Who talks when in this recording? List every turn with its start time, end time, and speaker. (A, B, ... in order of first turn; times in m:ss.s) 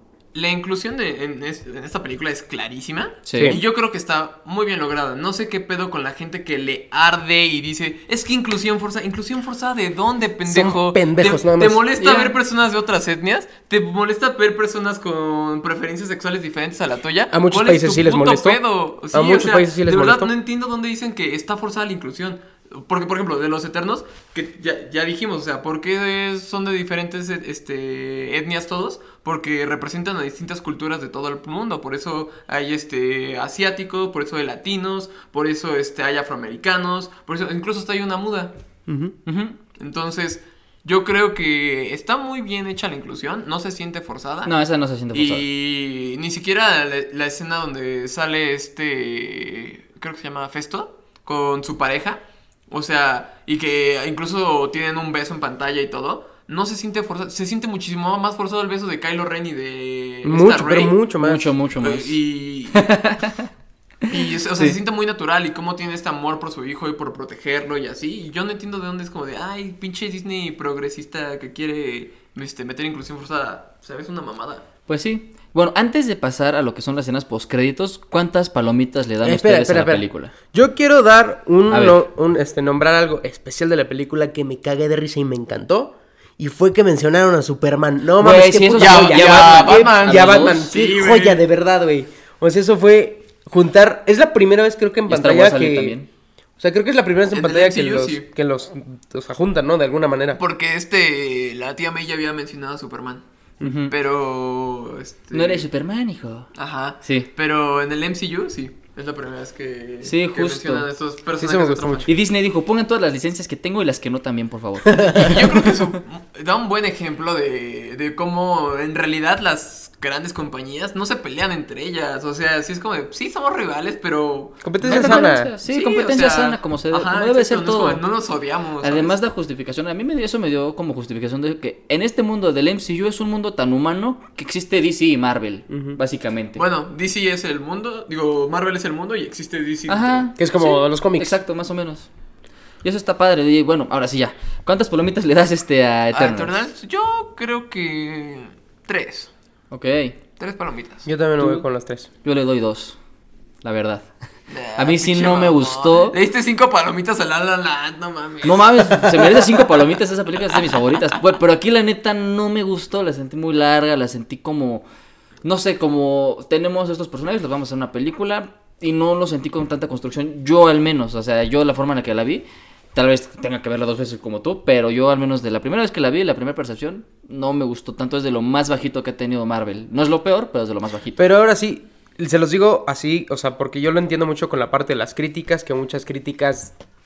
0:00.3-0:38.5 A
0:03.2-0:03.6 B
0:03.4-0:03.6 C
0:10.4-0:11.8 C
0:12.0-0:12.3 B
0:17.3-0:18.6 C
0:19.1-0:20.3 C
0:38.9-0:39.1 C
0:39.2-0:39.6 B
0:39.8-0:44.5 A
0:44.4-0:45.4 B
0:45.1-1:00.9 A
1:00.2-1:01.5 C
1:01.2-1:02.2 B
1:01.8-1:02.9 A
1:02.7-1:03.5 B
1:04.1-1:14.6 A
1:14.9-1:20.3 B
1:19.2-1:36.0 C
1:21.7-1:22.0 B
1:28.2-1:30.7 B
1:28.8-1:31.4 A
1:35.1-1:36.1 B
1:36.6-1:40.4 C
1:37.3-1:38.3 A
1:40.4-1:43.2 A
1:43.6-1:43.9 B
1:43.9-1:45.6 A
1:45.3-1:46.5 B
1:46.5-1:52.1 A
1:47.0-1:47.3 B
1:50.0-1:50.9 B
1:51.4-1:52.1 C
1:52.0-1:55.6 B
1:54.9-1:55.4 C
1:55.1-2:09.1 A
2:04.6-2:05.5 C
2:04.8-2:08.0 B
2:08.8-2:16.6 B
2:15.7-2:16.0 C
2:16.6-2:20.3 A
2:19.9-2:22.1 B
2:20.4-2:21.4 C
2:22.8-2:26.6 B
2:26.1-2:29.3 A
2:29.7-2:30.2 B
2:30.4-2:31.1 A
2:31.0-2:32.1 C
2:31.4-2:31.6 B
2:32.2-2:33.0 B
2:33.6-2:34.1 B
2:34.5-2:39.6 A
2:34.8-2:36.2 B
2:38.4-2:44.8 B
2:45.4-3:01.2 B
3:01.2-3:06.8 C